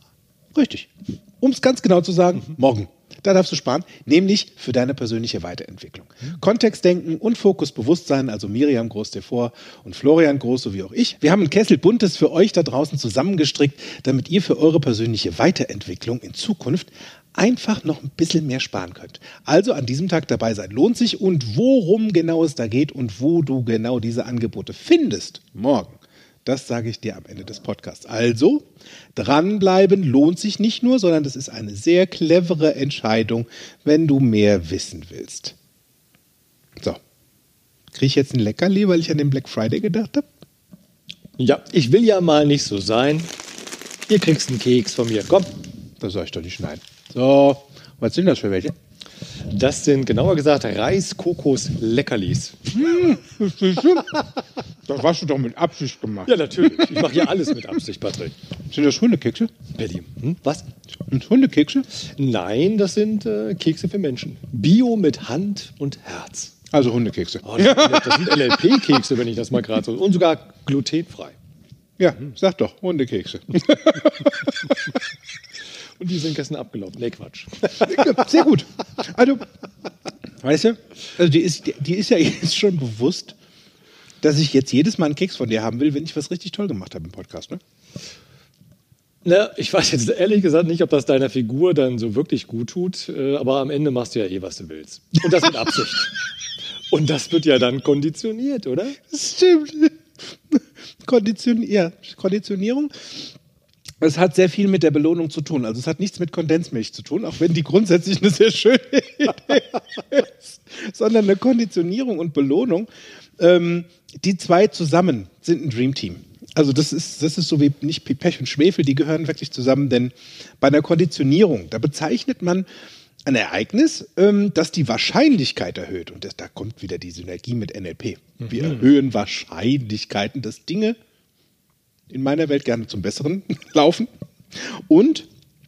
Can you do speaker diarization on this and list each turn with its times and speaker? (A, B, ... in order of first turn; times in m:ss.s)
0:00.6-0:35.6 A
0:37.9-0:40.3 A
0:41.4-0:43.3 B
0:44.1-0:45.5 B
0:46.0-0:48.7 A
0:49.4-0:52.7 B
0:52.7-0:54.2 A
0:54.9-0:57.2 A
0:56.3-0:58.4 B
0:58.7-0:59.5 A
0:59.7-1:00.7 B
1:01.1-1:01.9 A
1:02.0-1:06.6 B
1:06.7-1:08.6 A
1:07.4-1:11.4 B
1:12.0-1:14.8 A
1:16.0-1:18.3 B
1:17.8-1:19.5 A
1:20.4-1:23.4 A
1:24.2-1:27.6 A
1:29.2-1:36.1 B
1:36.9-1:39.0 B
1:39.1-1:40.0 A
1:40.5-1:43.3 A
1:44.0-2:02.7 A
2:03.2-2:11.0 A
2:08.5-2:08.8 B
2:12.1-2:15.3 A